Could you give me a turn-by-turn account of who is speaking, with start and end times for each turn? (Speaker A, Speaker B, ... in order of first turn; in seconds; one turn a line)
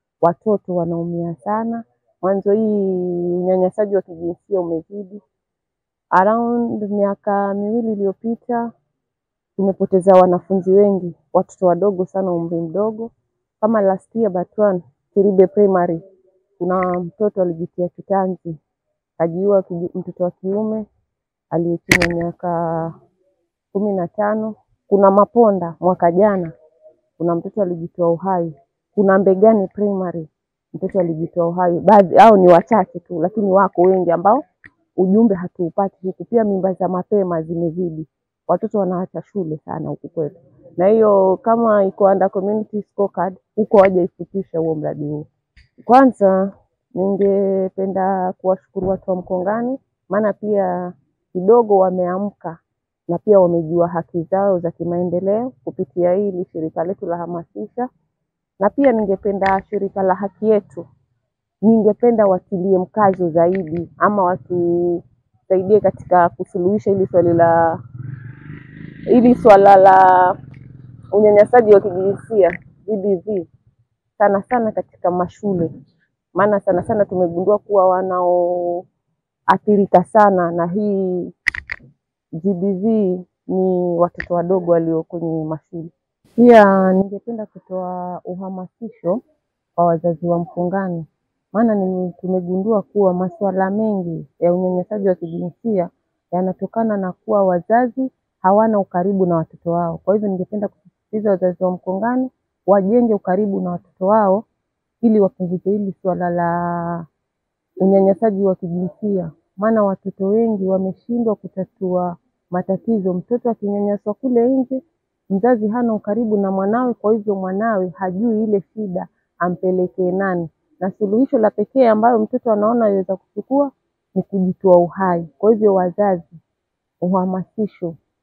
Speaker A: 0.2-5.2
Speaker A: 6.1-8.7
Speaker A: 9.6-16.0
Speaker A: 16.6-18.6
Speaker A: 19.2-20.9
Speaker A: 21.5-22.9
Speaker A: 23.7-26.5
Speaker A: 27.2-34.4
Speaker A: 35.0-57.9
Speaker A: 58.6-60.8
Speaker A: 61.6-67.8
Speaker A: 69.1-70.3
Speaker A: 71.1-73.5
Speaker A: 74.2-75.7
Speaker A: 76.3-78.8
Speaker A: 79.5-81.3
Speaker A: 82.4-89.2
Speaker A: 89.8-104.4
Speaker A: 105.0-107.1
Speaker A: 107.8-126.4
Speaker A: 127.0-127.9